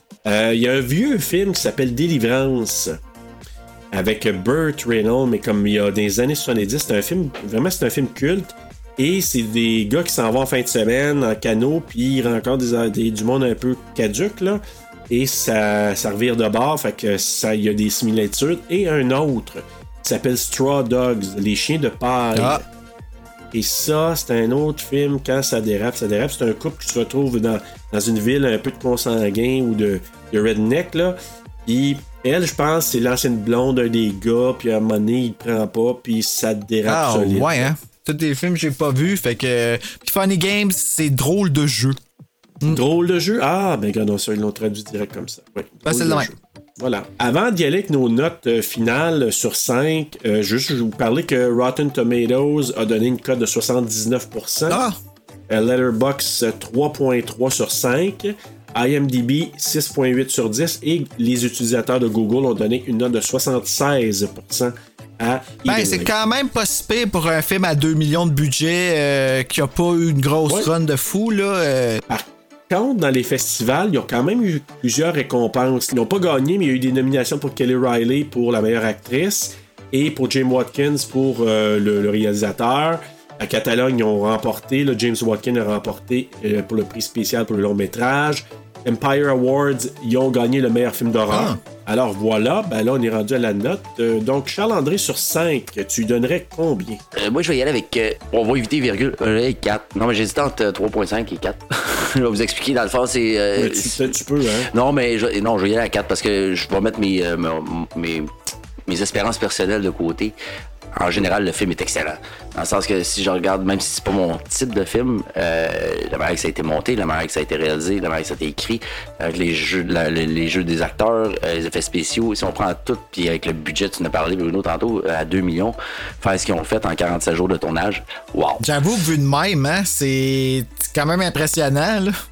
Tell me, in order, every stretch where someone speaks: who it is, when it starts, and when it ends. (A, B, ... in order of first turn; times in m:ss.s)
0:00.2-0:03.0 A
0:03.9-0:22.6 A
0:22.3-0:22.6 B
0:23.5-0:37.7 A
0:36.9-0:42.0 B
0:42.7-0:54.8 A
0:45.8-0:46.3 B
0:54.7-0:55.0 B
0:55.5-1:06.1 A
1:05.7-1:12.0 B
1:12.1-1:37.0 A
1:31.3-1:31.6 B
1:37.2-1:44.1 C
1:43.6-1:44.7 A
1:44.7-1:48.3 C
1:48.9-1:50.4 C
1:50.9-2:08.6 C
2:08.6-2:12.1 B